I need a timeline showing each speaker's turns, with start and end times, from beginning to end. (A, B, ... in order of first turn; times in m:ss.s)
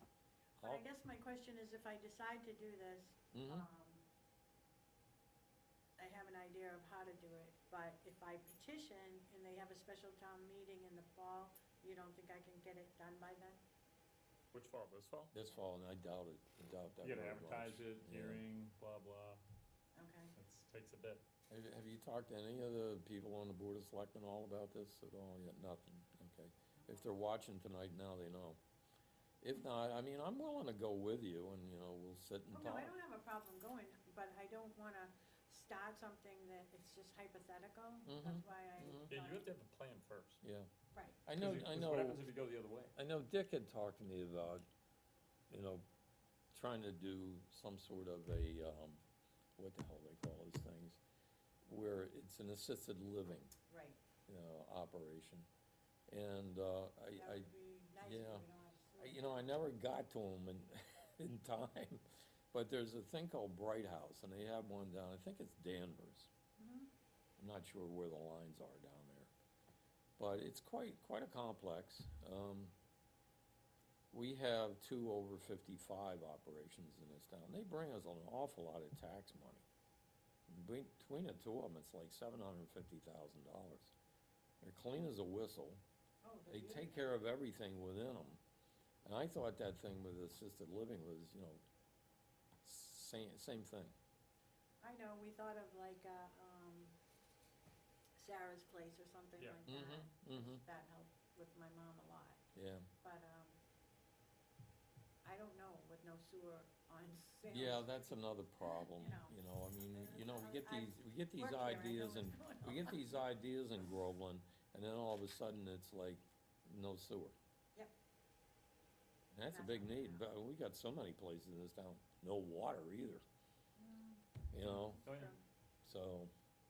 0:00.6-0:04.0 A
0:03.3-0:03.7 B
0:06.0-0:13.6 A
0:14.5-0:15.3 C
0:15.3-0:18.4 B
0:17.0-0:19.4 C
0:19.9-0:20.3 A
0:20.3-0:21.2 C
0:21.5-0:28.6 B
0:29.4-0:32.9 B
0:32.5-0:39.5 A
0:38.0-0:39.1 B
0:39.1-0:40.4 C
0:40.4-0:40.7 B
0:40.9-0:41.2 A
0:41.2-0:42.2 B
0:41.3-0:42.9 C
0:42.9-0:44.6 B
0:45.5-0:45.8 B
0:46.5-0:49.0 B
0:49.6-0:51.0 B
0:51.6-0:53.5 B
0:53.7-0:54.0 A
0:54.2-0:55.5 B
0:56.1-0:57.5 B
0:57.1-0:59.3 A
0:58.0-0:58.4 B
0:59.0-1:06.3 B
1:06.6-1:06.9 A
1:07.4-1:09.3 B
1:10.2-1:12.7 B
1:14.1-1:19.6 B
1:20.5-1:23.9 B
1:24.6-1:25.8 B
1:26.2-1:27.0 A
1:26.5-1:28.4 B
1:29.0-1:31.6 B
1:32.6-1:33.9 B
1:34.8-1:36.9 A
1:38.2-1:42.4 A
1:39.7-1:40.6 B
1:42.5-1:42.9 B
1:43.0-1:43.6 A
1:45.2-1:49.4 A
1:47.5-1:57.4 B
1:49.9-1:53.0 A
1:59.3-2:03.2 B
1:59.5-2:00.2 A
2:03.8-2:04.2 A
2:04.5-2:05.0 B
2:04.8-2:05.4 A
2:05.0-2:05.3 C
2:05.8-2:06.3 B